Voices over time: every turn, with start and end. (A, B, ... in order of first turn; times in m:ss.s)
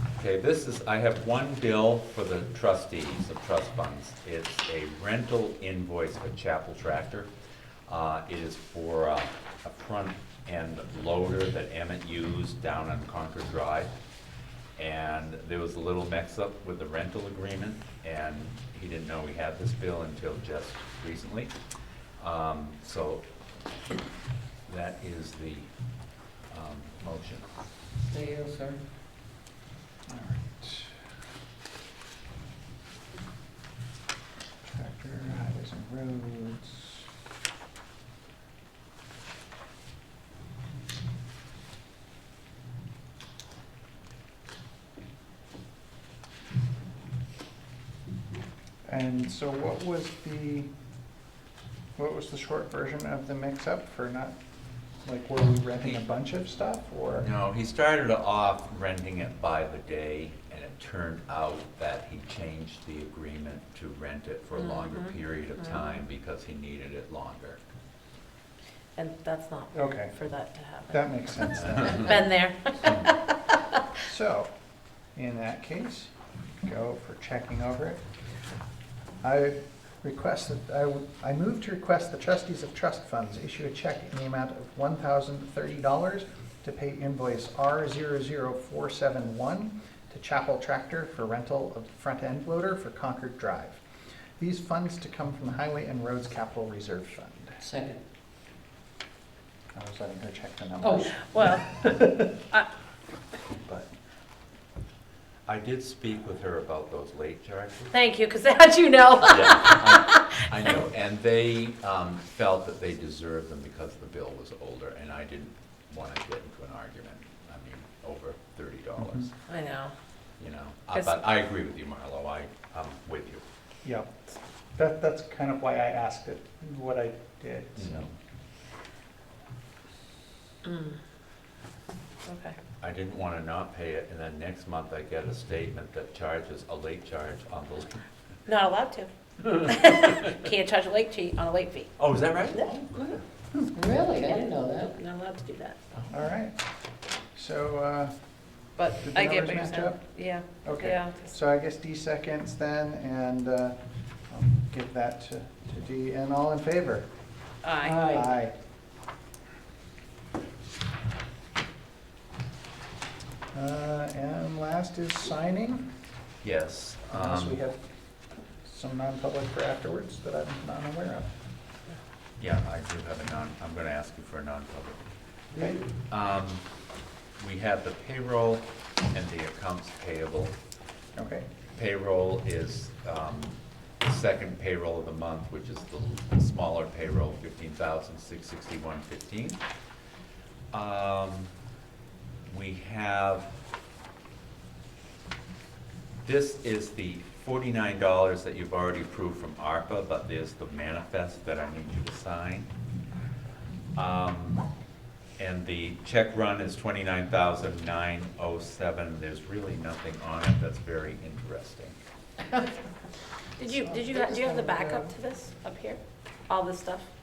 0:00.2-0:07.3 A
0:07.9-0:13.9 A
0:14.8-0:21.5 A
0:22.2-0:23.2 A
0:24.7-0:25.7 A
0:26.5-0:27.5 A
0:28.1-0:28.8 B
0:30.1-0:30.9 C
0:34.7-0:37.0 C
0:48.9-0:50.7 C
0:52.0-0:54.4 C
0:55.0-0:57.3 C
0:57.2-1:07.6 A
1:04.6-1:05.1 D
1:09.0-1:13.6 D
1:09.7-1:10.2 C
1:10.9-1:12.2 C
1:14.0-1:14.5 C
1:15.1-1:18.0 C
1:19.2-1:33.8 C
1:34.4-1:37.6 C
1:37.6-1:38.0 B
1:39.7-1:42.4 C
1:40.8-1:41.1 B
1:41.2-1:42.7 D
1:43.5-1:43.9 C
1:45.4-1:47.9 A
1:47.9-1:50.7 D
1:49.3-1:59.3 A
1:59.0-1:59.3 C
1:59.5-1:59.9 D
2:00.4-2:03.4 A
2:03.8-2:08.1 C
2:07.8-2:08.1 A
2:10.6-2:11.0 D
2:12.2-2:12.6 D
2:12.8-2:18.0 A
2:18.4-2:21.9 D
2:19.4-2:20.4 A
2:22.0-2:23.2 A
2:23.7-2:24.9 B
2:24.3-2:26.0 D
2:26.1-2:26.6 C
2:27.3-2:28.1 C
2:28.8-2:31.3 D
2:29.0-2:30.0 C
2:30.6-2:33.8 C
2:34.3-2:37.1 C
2:37.6-2:38.0 D
2:37.8-2:38.3 B
2:38.1-2:38.5 C
2:43.5-2:45.9 C
2:46.4-2:47.6 A
2:47.1-2:47.8 C
2:48.6-2:51.3 C
2:52.4-2:55.0 A
2:56.1-2:56.6 A
2:57.4-3:00.5 A
3:01.1-3:01.5 C
3:01.7-3:09.6 A
3:10.7-3:11.5 A
3:12.5-3:13.5 A
3:16.2-3:22.7 A
3:24.0-3:24.6 A
3:25.4-3:32.0 A
3:33.6-3:37.0 D
3:33.8-3:35.1 C